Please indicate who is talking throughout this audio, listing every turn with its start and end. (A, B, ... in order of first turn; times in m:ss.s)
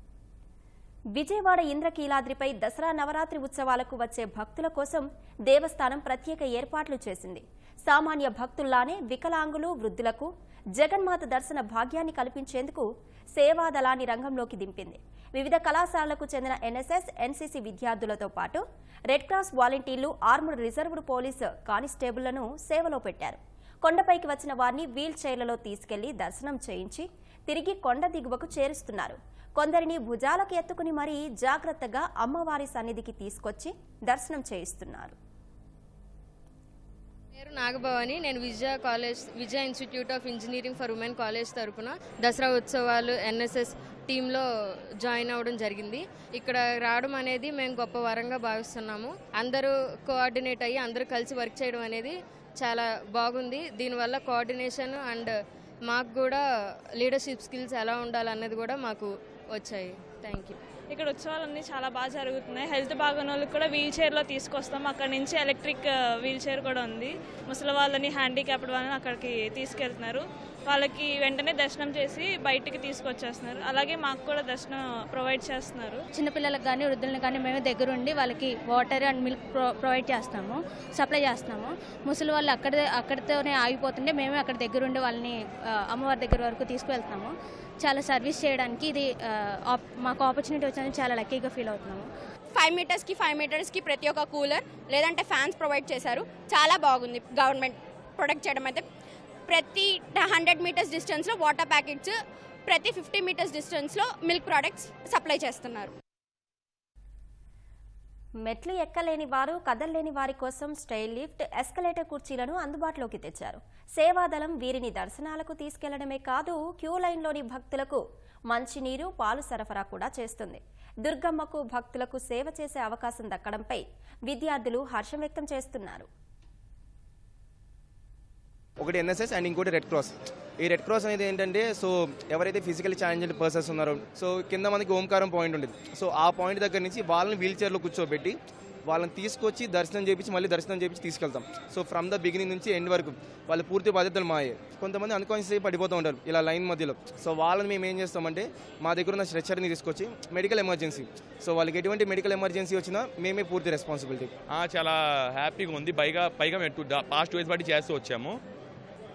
0:01.2-0:35.2 A
0:37.4-0:44.5 B
0:45.0-0:55.3 B
0:55.9-0:56.4 B
0:57.0-1:00.6 B
1:00.9-1:16.0 C
1:16.1-1:32.1 D
1:32.5-1:38.8 E
1:39.5-1:45.9 E
1:48.5-2:06.1 A
2:08.8-2:34.3 F
2:34.5-2:38.4 G